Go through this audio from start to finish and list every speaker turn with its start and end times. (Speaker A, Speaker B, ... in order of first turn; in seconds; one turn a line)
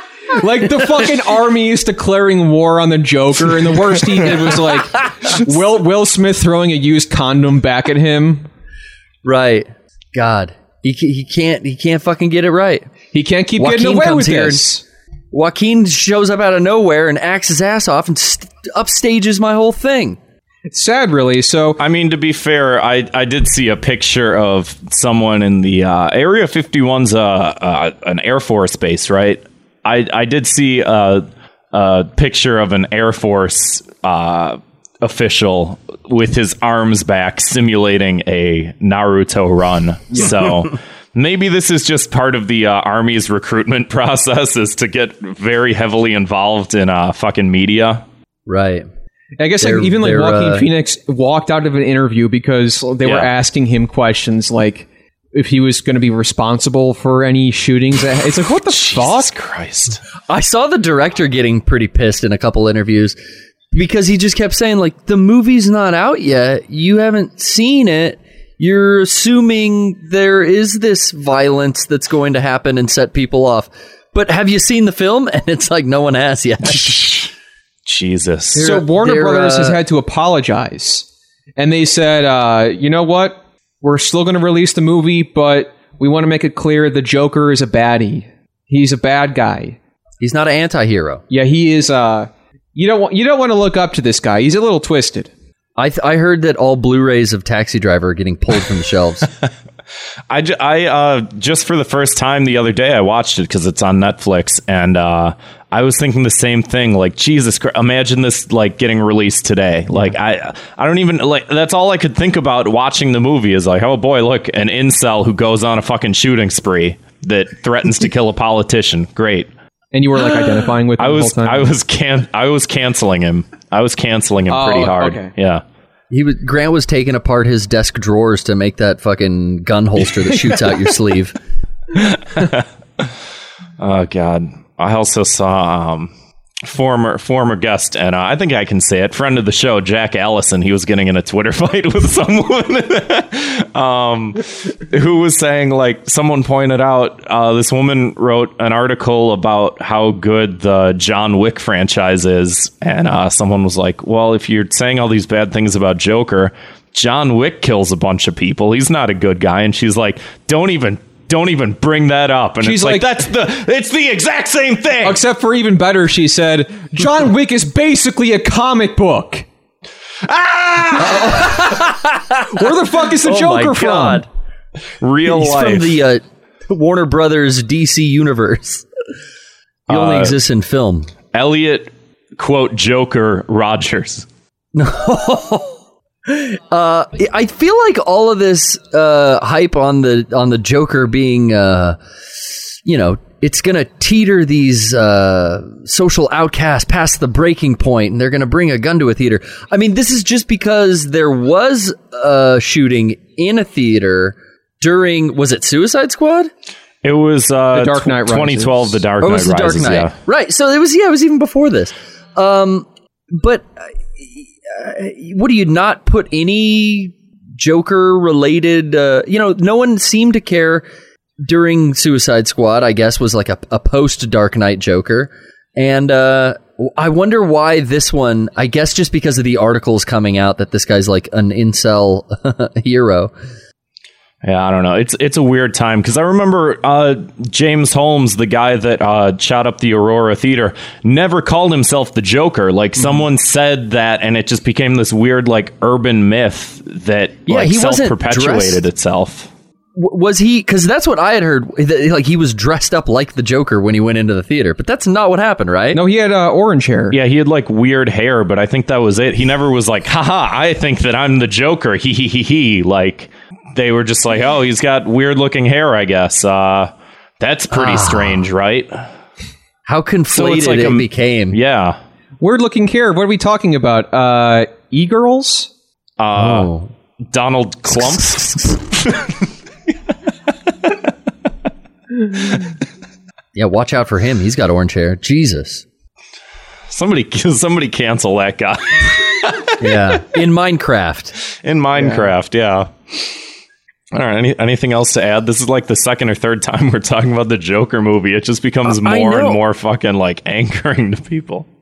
Speaker A: 0.3-8.5
Speaker B: 9.2-12.9
Speaker A: 13.1-14.8
Speaker B: 13.6-14.7
Speaker B: 15.3-20.2
Speaker A: 20.7-21.8
Speaker C: 21.8-48.0
Speaker B: 48.5-48.9
Speaker A: 49.4-59.3
Speaker B: 49.6-50.7
Speaker C: 58.7-60.0
Speaker B: 60.3-63.2
Speaker B: 63.7-77.3
Speaker C: 77.9-78.7
Speaker A: 78.5-81.1
Speaker B: 78.6-79.8
Speaker A: 81.6-89.8
Speaker B: 90.2-91.2
Speaker A: 91.3-95.3
Speaker B: 95.8-99.3
Speaker C: 100.3-119.5
Speaker A: 119.9-121.7
Speaker C: 121.0-125.6
Speaker A: 124.5-125.3
Speaker B: 126.1-131.4
Speaker C: 132.0-132.6
Speaker C: 133.8-136.1
Speaker C: 136.6-165.2
Speaker A: 162.6-163.1
Speaker A: 165.0-169.5
Speaker C: 170.3-171.4
Speaker B: 171.0-172.5
Speaker A: 172.5-174.2
Speaker B: 173.2-174.3
Speaker C: 175.0-176.0
Speaker B: 175.2-178.9
Speaker C: 179.9-180.3
Speaker B: 179.9-181.1
Speaker C: 181.3-184.3
Speaker B: 184.7-206.5
Speaker C: 207.0-210.1
Speaker A: 207.7-209.0
Speaker B: 209.2-220.9
Speaker B: 221.4-233.3
Speaker C: 234.4-249.5
Speaker B: 247.5-248.8
Speaker B: 250.0-256.0
Speaker A: 255.9-257.2
Speaker C: 257.1-269.0
Speaker B: 267.7-268.4
Speaker B: 269.9-271.6
Speaker C: 270.3-272.0
Speaker A: 272.4-275.7
Speaker C: 276.2-276.7
Speaker B: 276.4-276.9
Speaker C: 277.3-279.3
Speaker B: 283.5-285.9
Speaker C: 286.9-290.2
Speaker B: 289.8-291.3
Speaker C: 291.6-293.3
Speaker A: 292.0-292.3
Speaker C: 294.1-301.7
Speaker B: 298.9-299.6